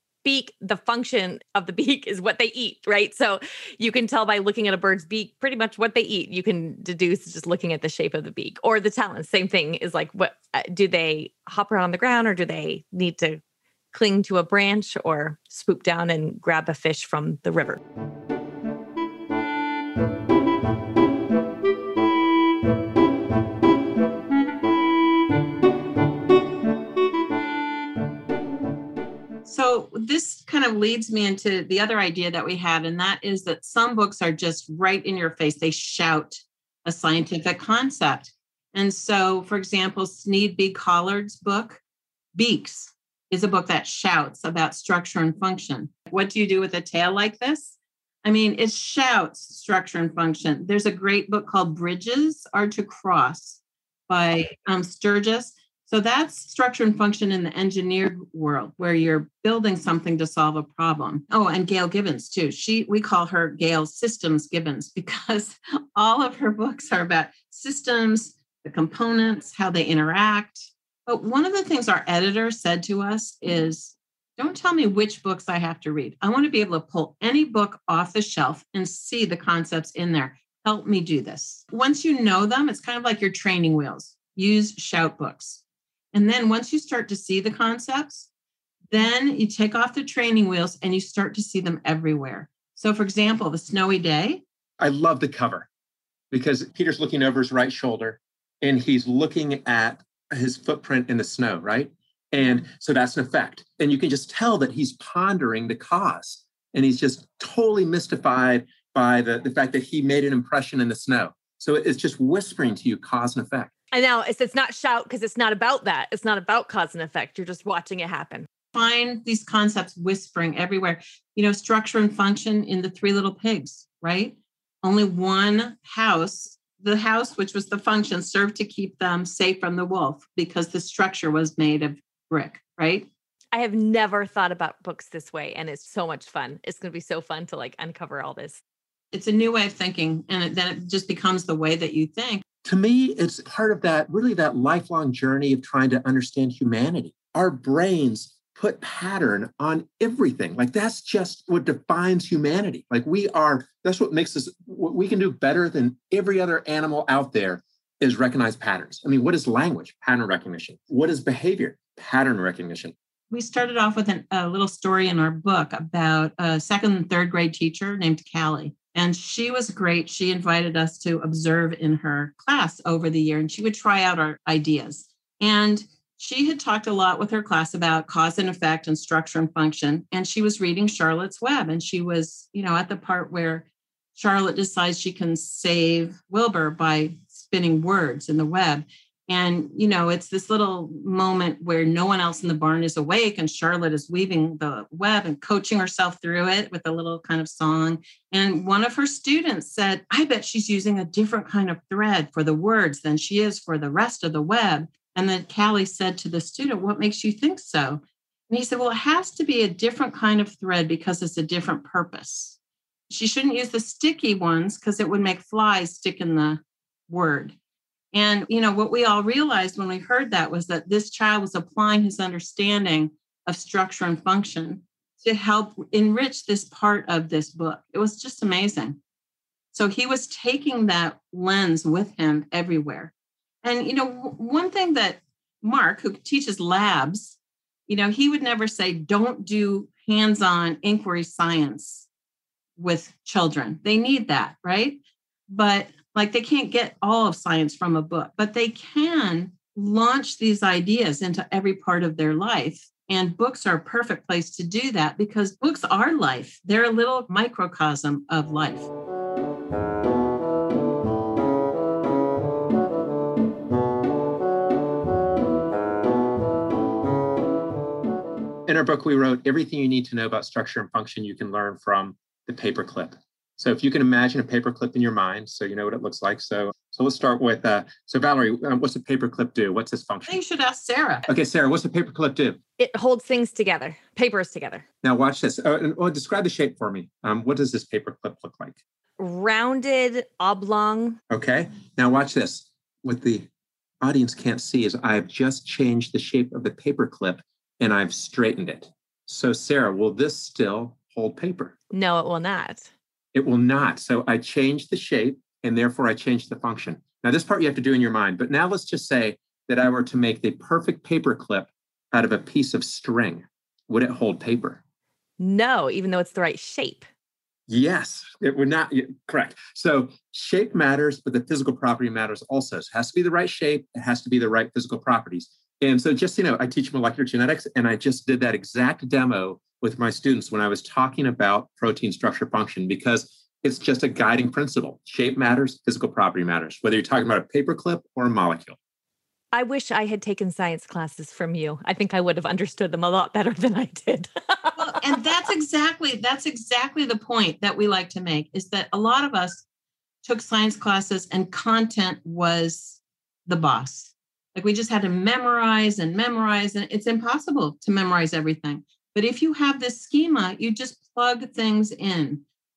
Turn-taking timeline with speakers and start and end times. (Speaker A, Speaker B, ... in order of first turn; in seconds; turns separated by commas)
Speaker A: 0.2-13.4, Speaker A: 13.9-17.8, Speaker B: 29.4-41.8, Speaker B: 42.3-85.6, Speaker B: 86.1-88.3, Speaker B: 88.9-94.4, Speaker C: 94.8-95.7, Speaker C: 96.3-113.7, Speaker A: 113.9-118.5, Speaker B: 118.7-133.1, Speaker A: 133.5-138.6, Speaker B: 139.1-142.4, Speaker C: 142.6-162.9, Speaker B: 163.3-212.6, Speaker B: 213.1-217.5, Speaker B: 218.1-229.0, Speaker B: 229.7-233.1, Speaker B: 233.6-242.1, Speaker B: 242.8-258.9, Speaker C: 268.6-280.3, Speaker B: 280.3-281.2, Speaker C: 281.3-282.6, Speaker A: 282.8-284.8, Speaker C: 285.0-288.8, Speaker A: 289.2-291.2, Speaker C: 291.3-293.5, Speaker C: 294.0-301.7, Speaker A: 301.9-302.9, Speaker C: 303.3-314.8, Speaker A: 315.4-317.1, Speaker C: 317.7-338.8, Speaker A: 339.5-344.8, Speaker B: 344.8-349.6, Speaker B: 350.2-362.4